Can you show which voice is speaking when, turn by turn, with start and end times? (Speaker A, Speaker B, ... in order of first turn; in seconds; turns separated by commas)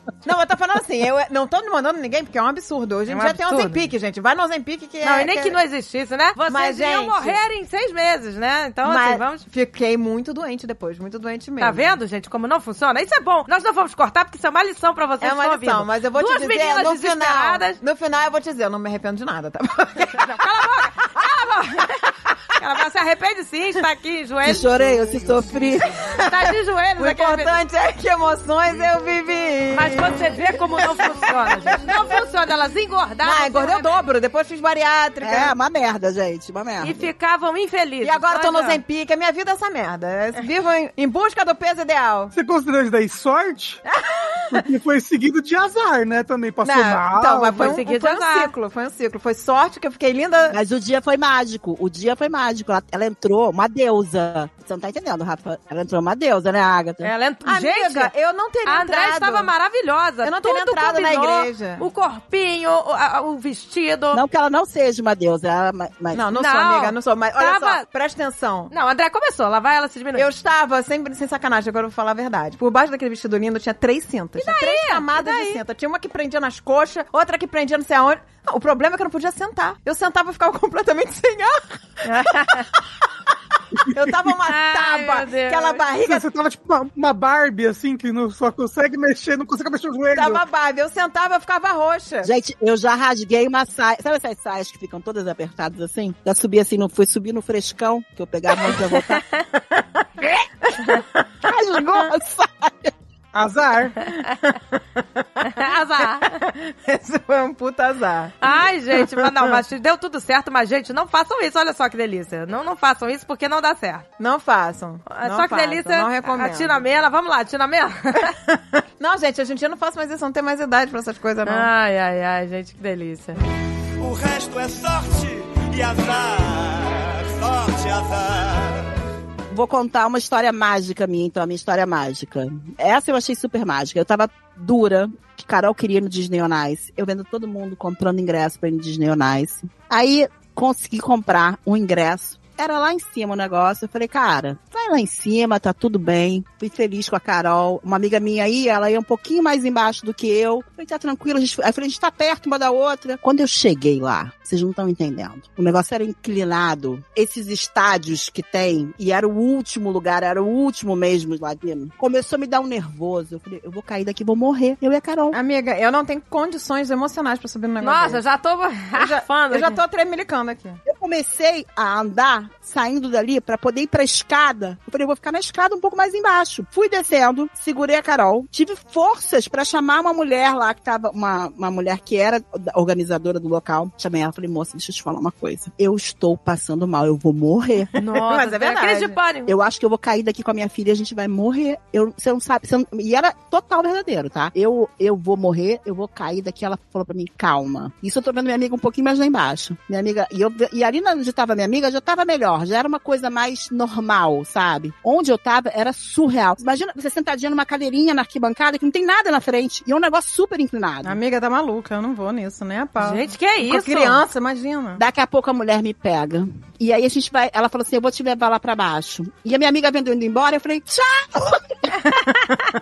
Speaker A: 0.2-5.6, Speaker B: 3.1-3.8, Speaker B: 5.0-9.4, Speaker A: 6.5-7.4, Speaker A: 8.8-12.0, Speaker B: 11.6-17.8, Speaker A: 15.2-20.5, Speaker B: 20.1-25.2, Speaker C: 24.4-26.0, Speaker A: 26.1-31.9, Speaker B: 26.2-27.6, Speaker B: 29.7-34.0, Speaker A: 33.2-35.5, Speaker C: 35.2-37.1, Speaker B: 36.8-38.8, Speaker A: 38.0-42.3, Speaker D: 42.3-43.8, Speaker A: 43.9-44.6, Speaker D: 44.5-47.7, Speaker A: 46.6-50.6, Speaker B: 47.6-48.5, Speaker C: 50.5-57.1, Speaker B: 57.0-58.1, Speaker A: 57.4-59.5, Speaker B: 58.7-64.2, Speaker A: 60.2-61.9, Speaker C: 64.1-66.2, Speaker A: 66.1-68.7, Speaker B: 66.3-67.8, Speaker B: 68.7-70.3, Speaker A: 70.1-82.7, Speaker B: 74.4-75.6, Speaker B: 82.0-82.7, Speaker A: 83.9-86.2, Speaker B: 84.5-85.8, Speaker D: 86.0-90.4, Speaker A: 90.1-92.3, Speaker C: 92.2-99.2, Speaker A: 100.7-101.0, Speaker C: 101.4-102.9, Speaker D: 103.3-104.0, Speaker A: 104.1-109.5, Speaker B: 105.5-106.3, Speaker B: 108.4-114.0, Speaker A: 114.2-116.8, Speaker B: 115.1-118.3, Speaker A: 118.3-121.7, Speaker B: 121.5-123.4, Speaker E: 124.0-128.9, Speaker C: 129.5-165.4, Speaker A: 165.3-168.2, Speaker B: 167.8-169.8, Speaker A: 168.9-170.8, Speaker C: 170.8-187.9, Speaker B: 187.9-189.5, Speaker A: 188.1-189.2, Speaker C: 189.4-211.2, Speaker A: 211.0-215.0, Speaker B: 213.0-214.2, Speaker C: 215.0-221.9